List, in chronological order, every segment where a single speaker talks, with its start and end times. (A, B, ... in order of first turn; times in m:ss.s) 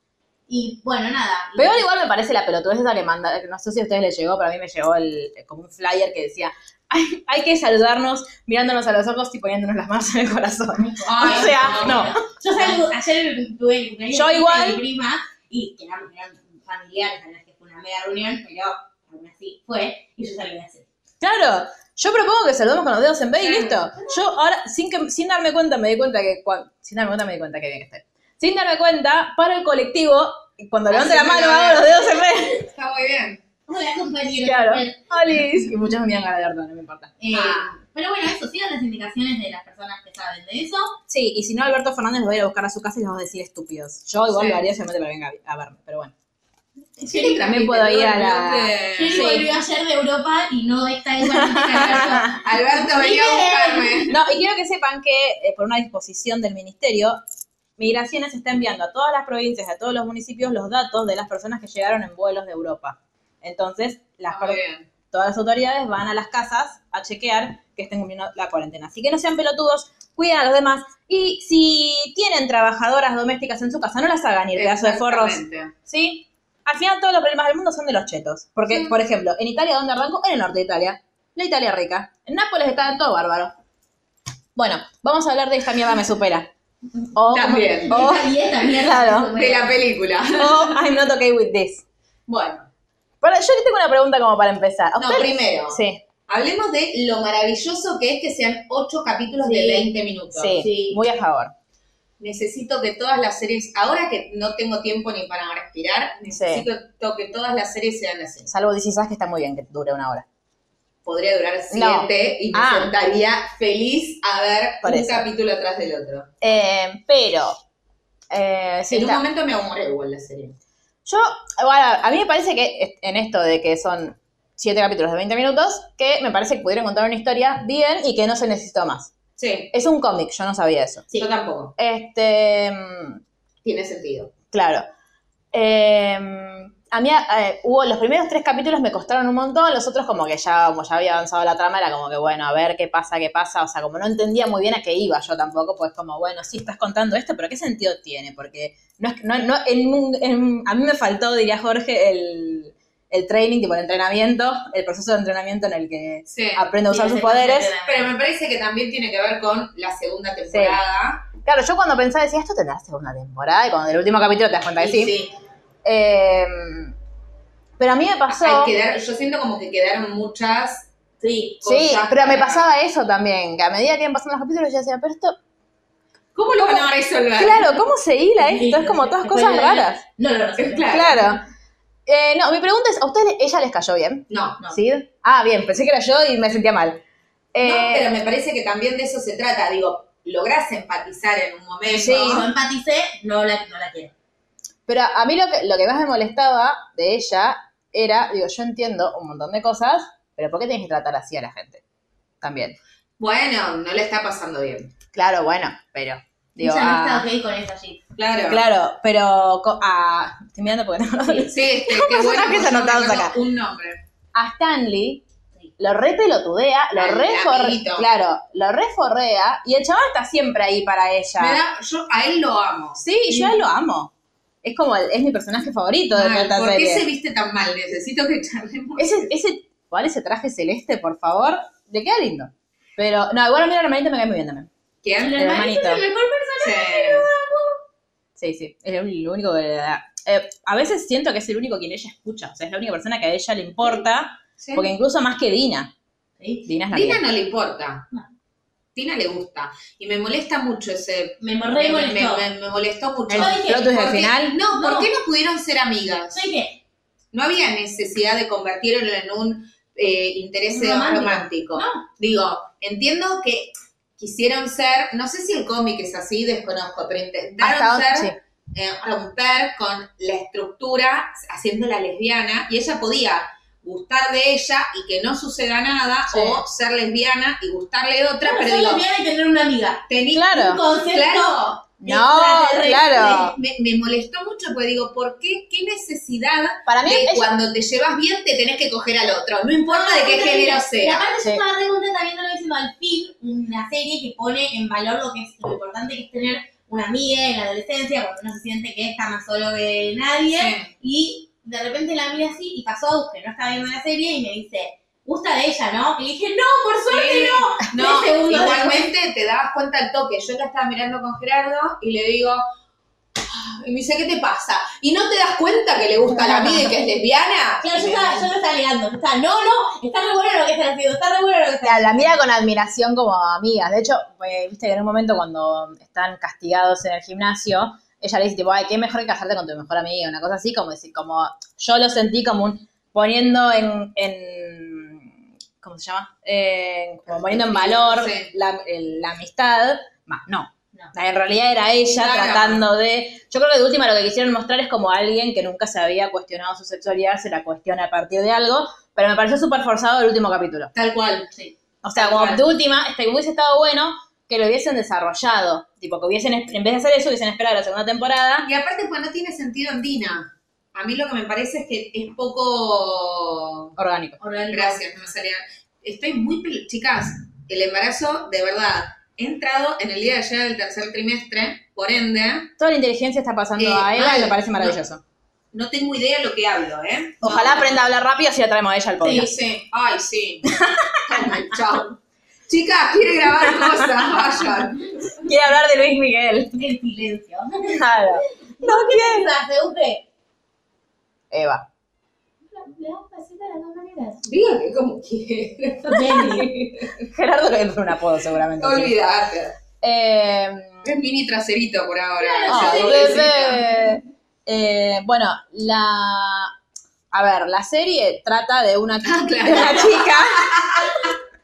0:00.5-0:01.8 A
0:01.6-0:12.2 B
0:10.8-0:20.8 A
0:11.0-0:12.0 C
0:14.1-0:14.8 B
0:21.2-0:32.6 B
0:23.4-0:23.9 C
0:30.9-0:31.8 C
0:32.6-0:33.4 C
0:33.7-0:35.7 A
0:34.4-0:37.4 B
0:37.2-0:41.0 A
0:37.4-0:37.6 C
0:41.1-0:46.1 B
0:44.3-0:44.6 C
0:47.0-0:47.4 A
0:47.0-0:49.5 C
0:47.1-0:49.5 B
0:48.9-0:54.0 A
0:51.3-0:52.3 B
0:51.6-0:54.2 C
0:54.1-0:57.2 B
0:57.8-1:04.6 B
1:04.3-1:04.9 C
1:05.1-1:23.5 B
1:14.5-1:15.7 C
1:24.6-1:26.5 B
1:27.1-1:29.3 B
1:27.3-1:28.1 C
1:27.9-1:29.7 A
1:29.3-1:30.8 C
1:30.4-1:31.8 B
1:32.3-1:32.7 C
1:33.2-1:36.0 B
1:35.0-1:40.7 C
1:39.4-1:39.9 A
1:40.3-1:41.5 B
1:40.6-1:41.0 A
1:42.2-1:48.5 C
1:46.3-1:46.7 B
1:48.5-1:50.2 B
1:51.0-1:56.3 C
1:51.7-1:52.9 B
1:54.8-1:55.3 B
1:56.4-1:57.6 B
1:58.3-1:59.2 B
1:58.9-2:00.6 C
2:01.0-2:09.1 B
2:09.4-2:09.7 C
2:09.7-2:11.1 B
2:11.1-2:11.7 C
2:11.8-2:13.2 B
2:13.6-2:14.3 C
2:14.5-2:14.8 B
2:15.5-2:37.7 B
2:36.3-2:36.7 C
2:36.9-2:38.1 A
2:37.8-2:41.3 C
2:40.5-2:40.8 B
2:41.4-2:45.1 B
2:44.8-2:45.3 C
2:45.8-2:46.9 B
2:47.8-2:48.7 B
2:48.3-2:50.9 C
2:51.2-2:51.6 A
2:51.6-2:52.7 C
2:51.6-2:55.4 B
2:56.3-2:57.6 C
2:56.6-3:00.0 B
2:58.4-3:01.2 A
3:00.6-3:01.2 C
3:00.9-3:01.4 B
3:02.0-3:07.0 B
3:04.3-3:04.6 C
3:07.5-3:08.1 B
3:07.6-3:12.5 C
3:11.9-3:12.4 B
3:11.9-3:14.1 A
3:14.9-3:21.8 B
3:22.4-3:22.8 B
3:23.2-3:24.9 C
3:25.1-3:27.2 B
3:26.6-3:28.0 A
3:28.2-3:28.6 C
3:28.5-3:33.3 B
3:31.4-3:34.0 C
3:34.3-3:35.2 B
3:35.8-3:41.6 B
3:36.9-3:38.1 C
3:41.4-3:43.0 C
3:43.0-3:44.1 B
3:44.6-3:47.0 B
3:46.1-3:49.2 C
3:49.0-3:54.7 B
3:55.0-3:55.4 C
3:55.2-3:57.8 A
3:55.4-3:56.0 B
3:56.6-3:57.3 C
3:58.4-4:05.9 B
4:04.6-4:04.9 C
4:06.4-4:06.7 A
4:06.6-4:07.2 B
4:06.9-4:08.1 C
4:08.9-4:16.5 C
4:11.4-4:12.4 A
4:13.3-4:14.6 B
4:13.3-4:14.0 A
4:14.7-4:15.1 A
4:16.3-4:16.8 A
4:17.3-4:39.0 C
4:20.7-4:22.0 A
4:27.6-4:28.4 B
4:36.3-4:36.6 B
4:38.4-4:43.5 A
4:40.1-4:41.8 C
4:40.3-4:40.8 B
4:42.0-4:43.5 B
4:43.2-4:51.3 C
4:46.9-4:47.5 B
4:49.9-5:09.1 A
5:00.5-5:00.9 C
5:07.1-5:12.6 C
5:13.4-5:18.5 C
5:16.4-5:16.8 B
5:17.8-5:22.4 A
5:21.8-5:35.3 B
5:35.8-5:50.9 B
5:37.3-5:38.5 C
5:42.2-5:42.8 C
5:50.9-5:51.5 C
5:52.0-5:58.7 B
5:52.1-5:52.6 C
5:58.6-6:03.9 C
6:04.0-6:04.4 B
6:04.4-6:05.0 A
6:04.7-6:12.7 C
6:12.8-6:15.2 B
6:13.8-6:15.0 C
6:15.7-6:18.1 C
6:17.4-6:19.5 B
6:19.2-6:25.0 C
6:20.7-6:21.5 B
6:23.6-6:24.5 B
6:25.3-6:26.8 B
6:26.7-6:30.2 A
6:27.9-6:29.5 B
6:31.5-6:31.9 B
6:32.7-6:34.4 A
6:34.4-6:37.2 C
6:36.1-6:36.7 A
6:37.1-6:39.1 B
6:38.8-6:39.8 C
6:40.0-6:41.1 B
6:41.0-6:43.8 C
6:42.4-6:43.5 A
6:42.7-6:46.7 B
6:47.3-6:51.2 B
6:49.2-6:51.3 C